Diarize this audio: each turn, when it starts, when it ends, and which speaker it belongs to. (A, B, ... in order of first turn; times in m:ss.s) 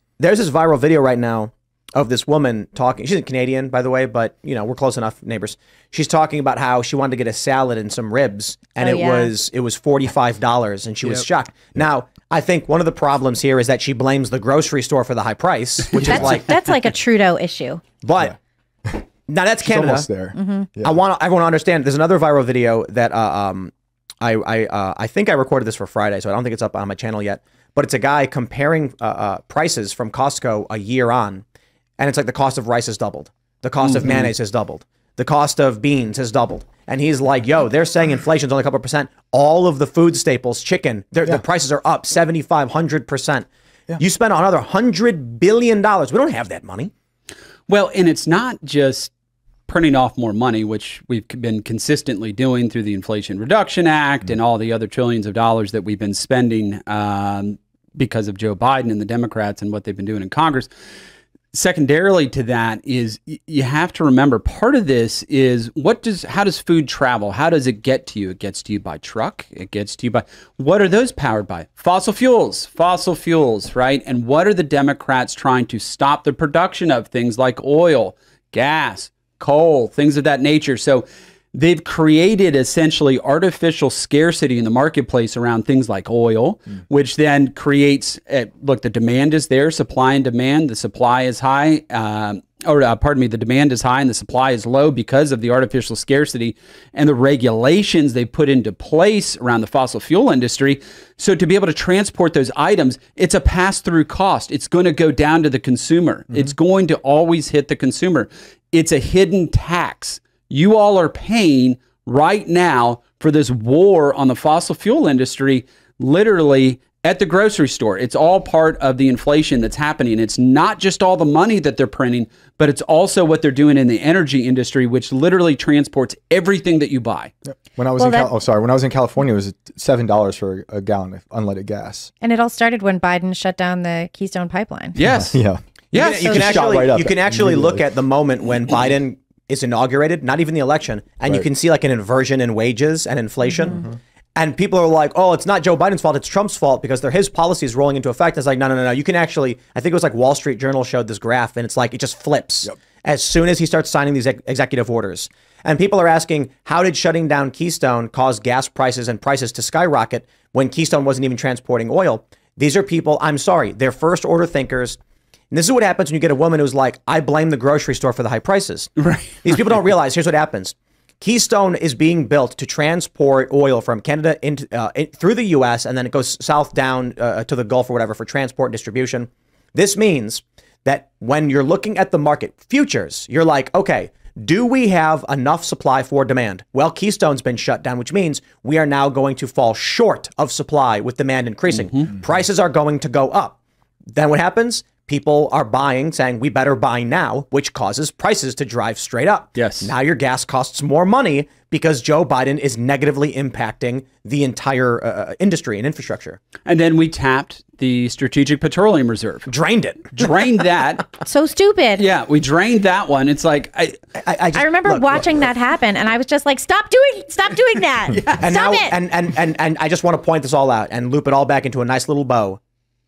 0:00.2-0:16.7 A
0:08.8-0:09.3 B
0:15.9-0:17.8 B
0:18.0-0:18.4 A
0:19.3-0:20.1 A
0:19.6-0:21.0 C
0:20.3-0:20.7 B
0:20.8-0:31.4 A
0:32.0-0:46.9 A
0:33.9-0:34.3 D
0:47.7-0:49.1 D
0:49.7-1:00.7 D
1:01.5-2:07.3 D
2:07.7-2:12.1 C
2:08.0-2:08.3 B
2:12.2-2:15.0 B
2:14.9-2:15.4 D
2:15.1-2:17.9 C
2:15.9-2:16.6 D
2:15.9-2:45.0 A
2:16.0-2:16.6 B
2:45.5-2:48.9 A
2:49.0-2:49.7 D
2:49.4-3:13.6 A
3:14.1-3:26.4 A
3:19.6-3:19.9 D
3:26.6-3:29.5 D
3:29.5-3:30.4 A
3:30.1-3:31.2 D
3:31.2-3:32.0 B
3:32.0-3:34.0 D
3:34.2-3:35.5 A
3:34.5-3:39.0 B
3:38.3-3:42.6 A